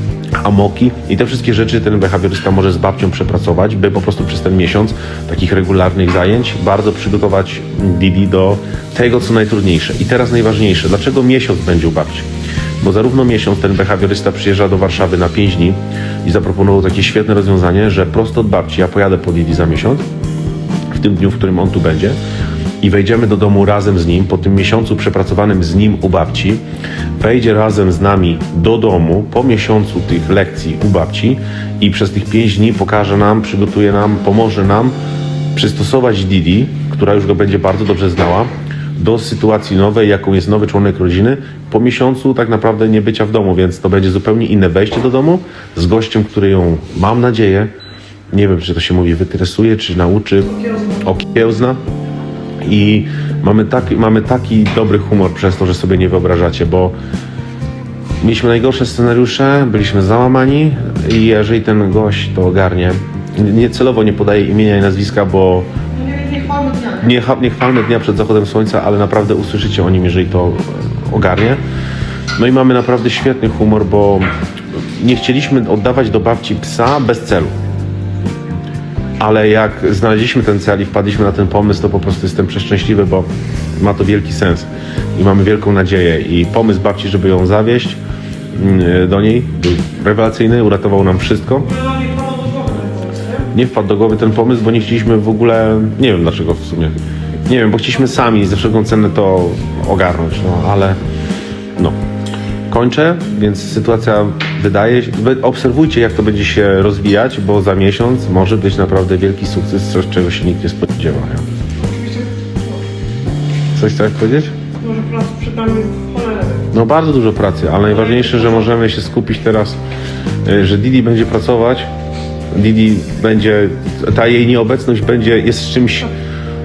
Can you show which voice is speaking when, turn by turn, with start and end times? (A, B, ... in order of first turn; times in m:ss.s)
0:00.4-0:12.3 A
0:12.8-0:20.0 A
0:20.9-0:22.2 A
0:22.8-0:26.6 A
0:27.2-0:34.9 A
0:35.5-0:47.7 A
0:48.3-0:51.8 A
0:52.6-0:56.9 A
0:58.2-1:05.7 A
1:05.9-1:07.0 B
1:07.0-1:11.6 A
1:12.4-1:17.5 A
1:19.2-1:28.0 A
1:28.5-1:31.7 A
1:31.7-1:33.5 B
1:33.5-1:41.0 A
1:42.7-1:51.5 A
1:51.8-1:52.8 B
1:53.7-1:54.6 A
1:54.8-1:56.7 B
1:56.7-1:59.8 A
1:58.1-1:58.7 B
2:00.4-2:01.9 A
2:02.5-2:06.1 A